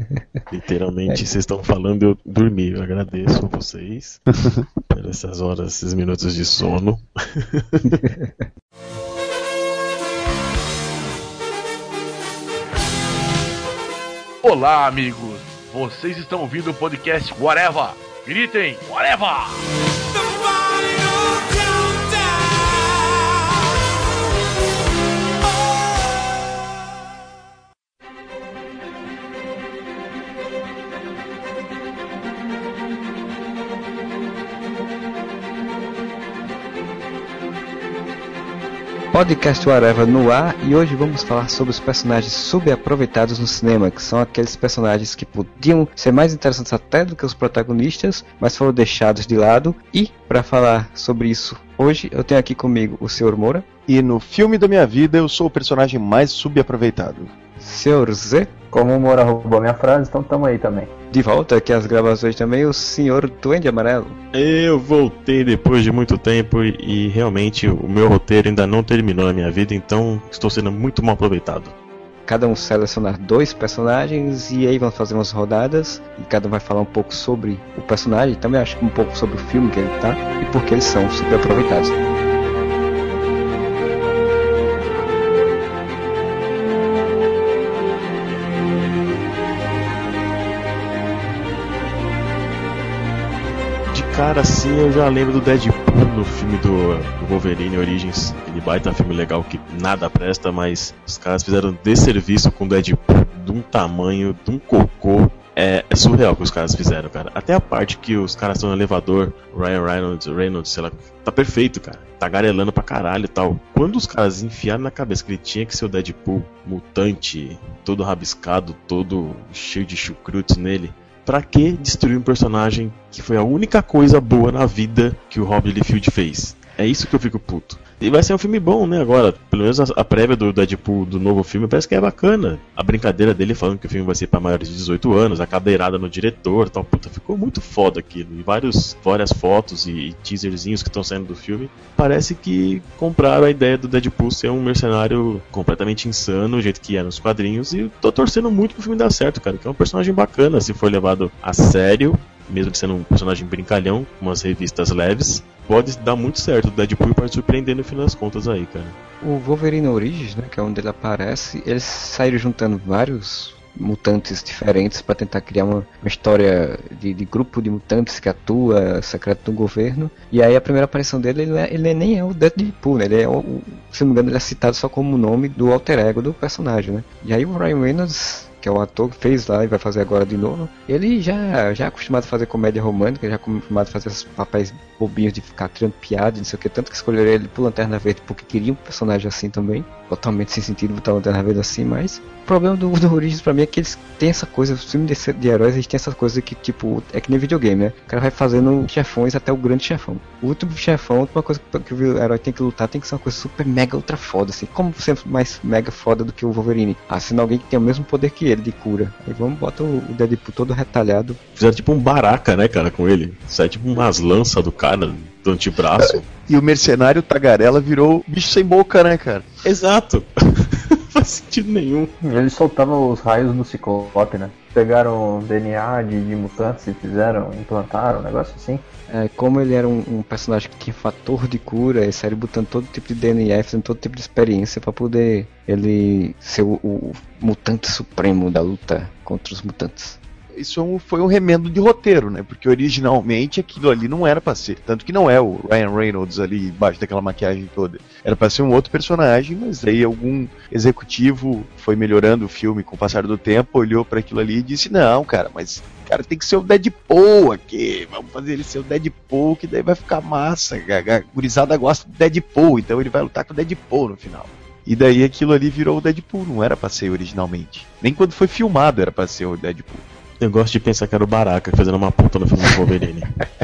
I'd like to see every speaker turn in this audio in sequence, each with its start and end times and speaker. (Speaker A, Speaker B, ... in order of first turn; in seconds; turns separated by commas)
Speaker A: 0.5-4.3, Speaker A: 4.9-8.1, Speaker B: 14.4-23.6, Speaker C: 39.1-53.6, Speaker D: 53.9-57.3, Speaker C: 57.6-58.5, Speaker E: 58.7-60.9, Speaker C: 61.1-64.2, Speaker A: 64.3-71.8, Speaker C: 72.3-82.0, Speaker A: 93.9-159.0, Speaker C: 159.2-211.4, Speaker A: 211.6-216.3, Speaker D: 216.0-219.5, Speaker A: 219.6-222.1, Speaker E: 222.2-228.8, Speaker C: 229.1-240.2, Speaker D: 240.5-270.0, Speaker A: 270.4-273.3